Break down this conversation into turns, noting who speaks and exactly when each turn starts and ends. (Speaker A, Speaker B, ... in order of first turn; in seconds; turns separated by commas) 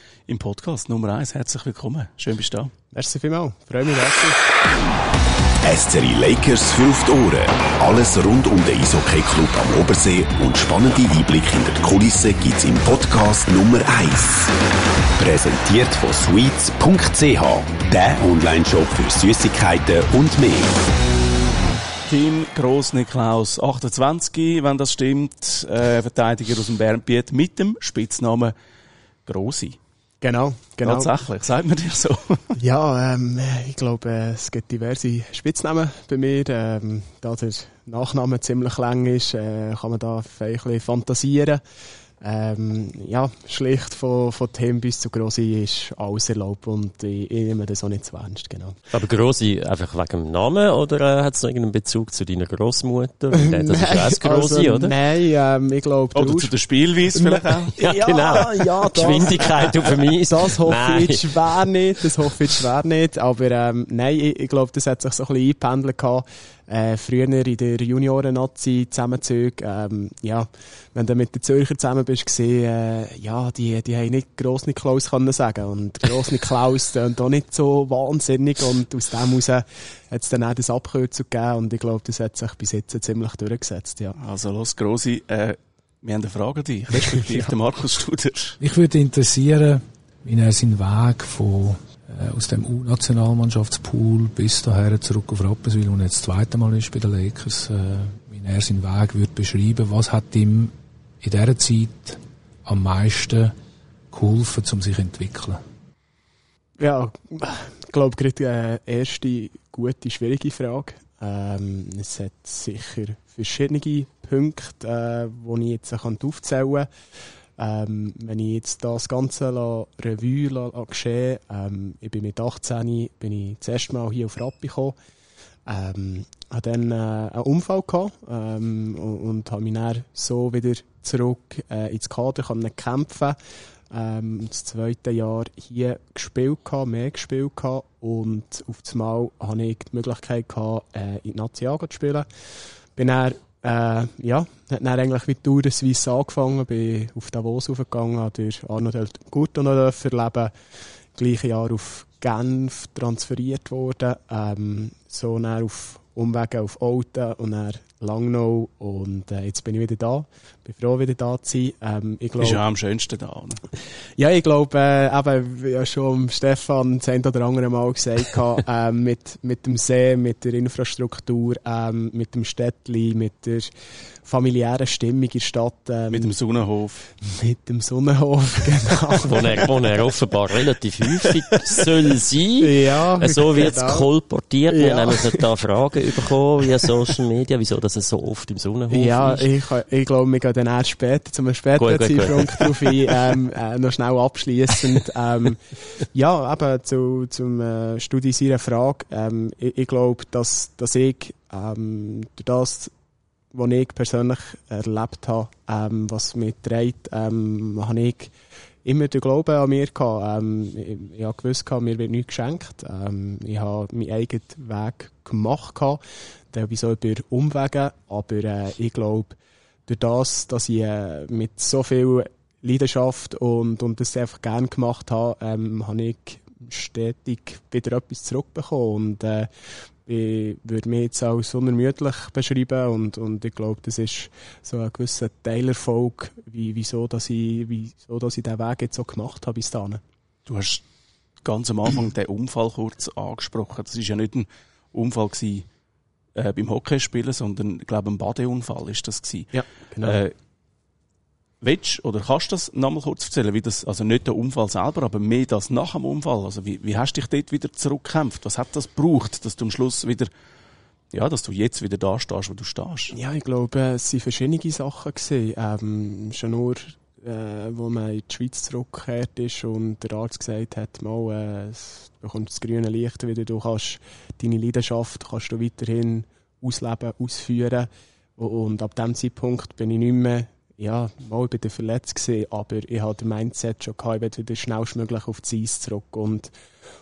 Speaker A: 0.3-2.7, Speaker B: 2.9-4.4, Speaker C: 5.6-14.6, Speaker C: 15.2-20.8, Speaker A: 22.1-28.6, Speaker A: 29.3-29.8, Speaker B: 30.2-31.1, Speaker A: 30.8-32.6, Speaker B: 32.6-41.6, Speaker B: 42.2-48.8, Speaker D: 48.9-55.0, Speaker B: 53.3-56.5, Speaker A: 56.1-57.7, Speaker B: 57.1-84.2, Speaker D: 57.8-61.7, Speaker A: 84.2-88.6, Speaker E: 88.6-103.5, Speaker E: 104.1-105.6, Speaker B: 106.8-116.9, Speaker B: 117.6-125.0, Speaker B: 125.7-133.4, Speaker B: 133.9-142.3, Speaker B: 143.0-150.5, Speaker B: 151.2-162.6, Speaker A: 162.4-163.6, Speaker B: 164.2-173.7, Speaker B: 174.2-176.3, Speaker A: 176.1-177.1, Speaker B: 177.2-180.1, Speaker D: 179.2-189.5, Speaker B: 181.2-181.9, Speaker B: 182.6-184.1, Speaker B: 184.7-185.5, Speaker B: 186.8-187.1, Speaker B: 188.9-202.9, Speaker D: 191.8-192.9, Speaker B: 203.5-216.0, Speaker B: 216.5-229.5, Speaker B: 230.1-240.0, Speaker A: 240.5-240.8, Speaker A: 241.4-245.7, Speaker A: 246.3-250.3, Speaker B: 249.5-250.2, Speaker A: 251.6-260.3, Speaker A: 261.1-263.1, Speaker B: 263.1-286.5